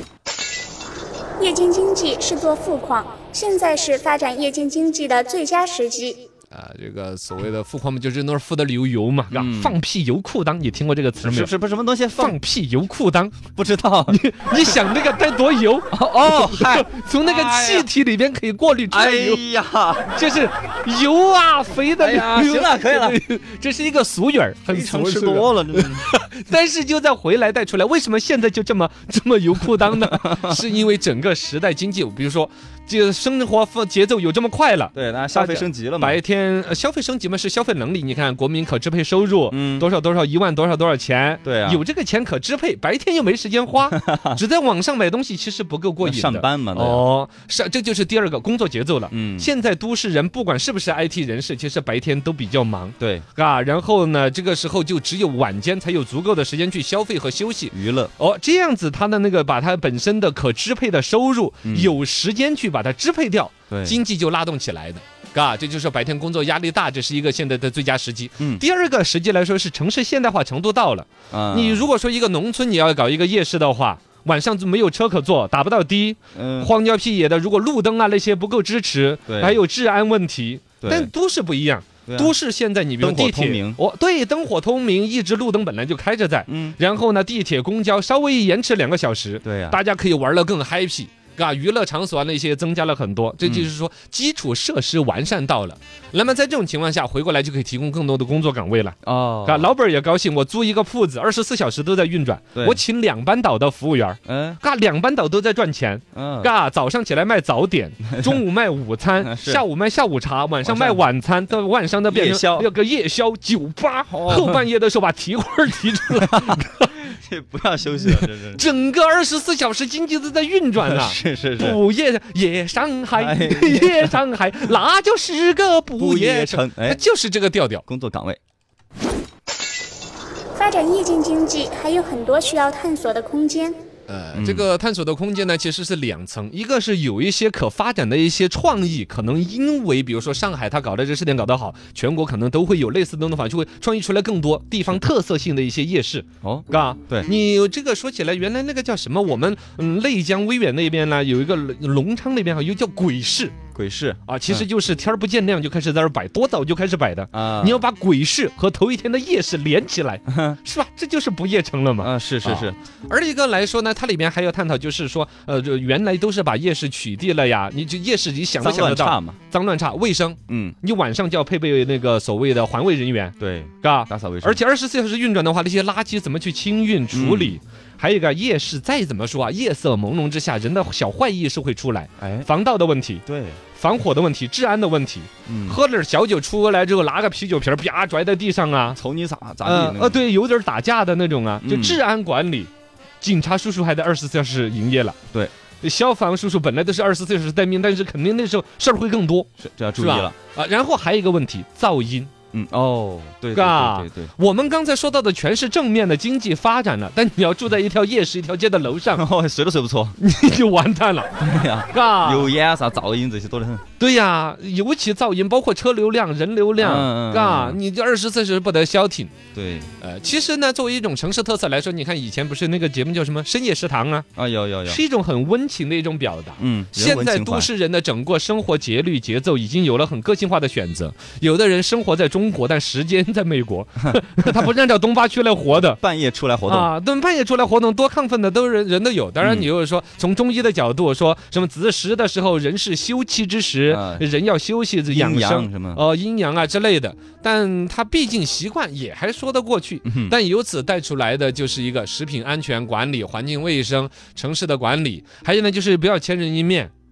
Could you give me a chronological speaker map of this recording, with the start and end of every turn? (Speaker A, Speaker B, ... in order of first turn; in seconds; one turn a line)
Speaker A: 1.4-6.3
Speaker B: 6.5-11.5
Speaker C: 9.3-9.8
Speaker C: 11.2-12.4
Speaker B: 12.2-13.4
Speaker C: 13.5-14.2
Speaker B: 14.1-19.4
Speaker C: 15.9-17.9
Speaker C: 18.9-20.2
Speaker B: 20.1-117.1
Speaker C: 22.0-23.2
Speaker C: 24.7-26.1
Speaker C: 29.9-30.6
Speaker C: 34.9-36.2
Speaker C: 39.5-39.9
Speaker C: 41.4-41.8
Speaker C: 43.9-44.4
Speaker C: 46.0-47.0
Speaker C: 49.1-49.5
Speaker C: 53.0-53.3
Speaker C: 57.7-58.1
Speaker C: 61.6-61.9
Speaker C: 63.7-64.0
Speaker C: 71.3-71.9
Speaker C: 76.3-76.7
Speaker C: 79.3-79.6
Speaker C: 80.8-81.1
Speaker C: 82.1-82.4
Speaker C: 83.0-83.8
Speaker C: 86.5-86.8
Speaker C: 89.4-89.8
Speaker C: 93.4-93.7
Speaker C: 99.0-99.7
Speaker C: 102.5-102.8
Speaker C: 104.3-104.6
Speaker C: 106.1-106.5
Speaker C: 109.2-109.7
Speaker C: 110.6-111.0
Speaker C: 112.1-112.7
Speaker C: 114.1-114.6
Speaker C: 116.2-118.6
Speaker B: 118.0-127.8
Speaker C: 120.8-121.8
Speaker C: 123.2-124.2
Speaker C: 126.0-127.0
Speaker C: 127.9-128.4
Speaker A: 130.6-133.8
Speaker B: 134.1-153.6
Speaker C: 134.3-134.7
Speaker C: 146.4-147.3
Speaker C: 153.7-154.7
Speaker B: 154.3-183.2
Speaker C: 157.3-157.8
Speaker C: 160.3-160.6
Speaker C: 162.0-162.8
Speaker C: 168.6-169.4
Speaker C: 170.5-170.8
Speaker C: 173.4-174.6
Speaker C: 177.1-177.6
Speaker C: 182.2-182.5
Speaker C: 183.3-183.6
Speaker B: 183.8-189.0
Speaker C: 185.5-185.8
Speaker C: 188.9-190.2
Speaker B: 189.6-192.7
Speaker C: 191.6-192.0
Speaker B: 193.2-195.2
Speaker B: 195.8-202.3
Speaker C: 199.6-200.3
Speaker C: 202.5-204.3
Speaker B: 203.5-209.2
Speaker C: 209.1-210.2
Speaker B: 210.2-212.5
Speaker C: 211.4-213.8
Speaker B: 214.0-219.3
Speaker C: 216.8-217.8
Speaker C: 219.5-219.9
Speaker B: 220.0-224.3
Speaker C: 224.4-225.0
Speaker B: 224.9-236.0
Speaker C: 226.6-227.7
Speaker C: 234.4-234.7
Speaker C: 235.8-236.9
Speaker B: 236.7-256.9
Speaker C: 239.4-239.7
Speaker C: 243.9-244.3
Speaker C: 245.1-246.0
Speaker C: 250.1-250.3